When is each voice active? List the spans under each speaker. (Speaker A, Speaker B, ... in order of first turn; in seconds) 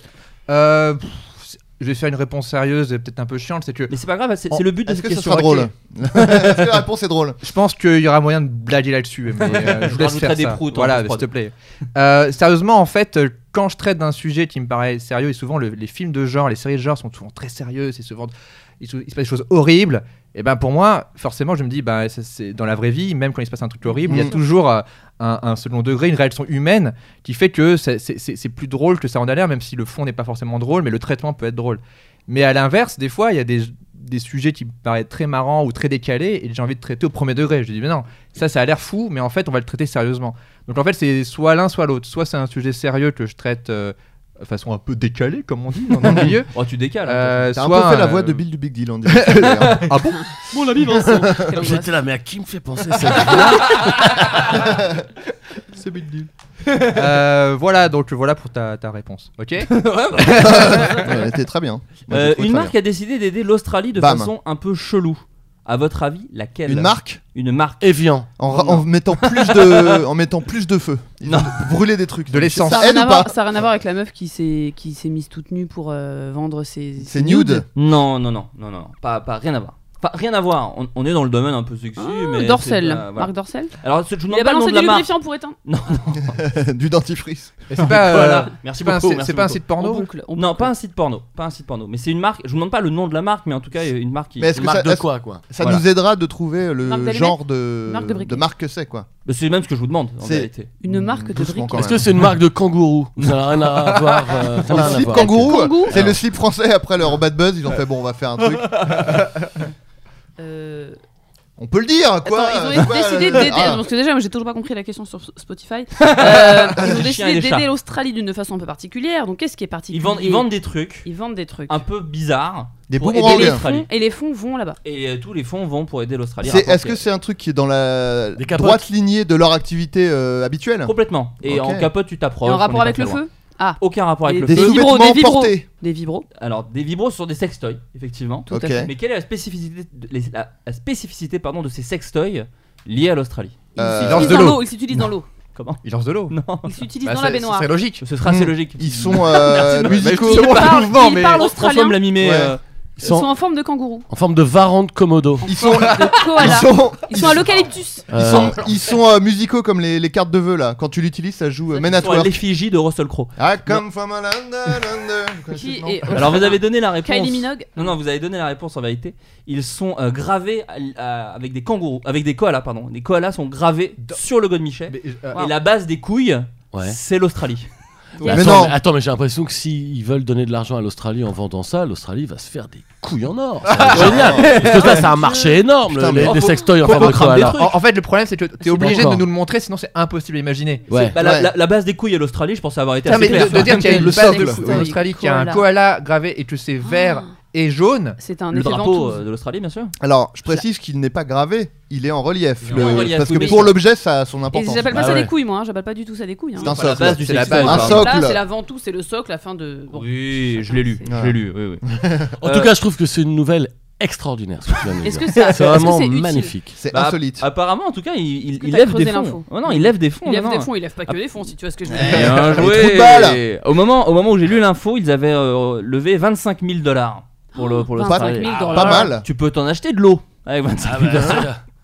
Speaker A: 0.5-3.9, 7.4-46.5, 47.0-48.4, 49.1-50.4, 55.7-61.1, 72.3-72.9, 87.7-90.1, 144.1-144.6, 145.8-146.3, 147.0-148.0, 149.9-151.4, 174.9-175.5, 183.7-184.8, 186.9-190.9, 193.1-198.2, 207.2-208.1
Speaker B: 3.9-5.7, 9.4-11.3, 46.5-47.5, 53.4-54.0, 59.7-61.1, 62.1-67.8, 68.6-70.0, 71.2-71.7, 77.8-86.4, 87.8-89.7, 90.3-94.5, 99.2-100.7, 116.0-117.7, 119.9-121.1, 121.7-123.9, 124.8-127.0, 130.8-133.2, 133.8-134.8, 136.4-143.7, 145.6-146.7, 148.0-152.6, 161.8-163.8, 166.1-178.6, 183.9-185.1, 186.2-187.8, 191.0-194.4, 198.5-199.9, 202.6-203.8, 206.6-208.1, 209.9-211.8, 212.4-212.7, 216.9-221.2, 221.9-231.5
Speaker C: 4.6-7.4, 24.1-24.4, 46.0-46.3, 47.5-49.9, 51.0-51.4, 60.3-62.7, 64.0-64.3, 66.7-67.2, 68.4-73.3, 77.0-77.7, 86.3-87.5, 94.4-99.1, 100.2-102.2, 104.6-109.2, 111.6-113.8, 122.9-123.6, 126.4-131.9, 134.5-135.7, 138.5-138.9, 143.8-144.6, 148.2-150.7, 152.2-152.6, 155.4-162.4, 163.4-166.6, 178.3-178.8, 183.9-184.6, 185.9-186.4, 191.2-191.5, 193.8-194.9, 200.0-205.3, 206.6-208.4, 211.1-211.4, 211.9-212.3, 216.8-217.5, 221.9-223.4, 228.0-229.3
Speaker D: 50.5-54.4, 67.8-68.3, 94.5-95.5, 101.8-106.2, 128.4-128.8, 153.0-153.3, 154.1-155.5, 158.1-158.7, 176.7-177.0, 178.2-187.7, 188.8-189.3, 190.9-191.2, 212.4-216.8, 230.8-231.6
Speaker E: 51.3-51.9, 72.7-77.7, 82.0-83.7, 84.3-85.6, 89.8-90.7, 96.8-98.4, 100.8-101.8, 104.8-105.9, 110.4-111.0, 112.2-120.5, 121.0-121.8, 123.2-124.8, 132.4-136.3, 138.5-138.8, 143.8-145.3, 146.7-147.7, 150.0-152.0, 153.0-154.1, 155.4-158.1, 165.5-167.9, 178.2-178.5, 184.5-185.6, 188.6-189.1, 193.1-195.7, 196.9-197.3, 198.2-199.2, 203.3-203.7, 204.5-206.7, 207.5-211.1, 215.0-216.6, 218.6-222.4, 227.6-229.2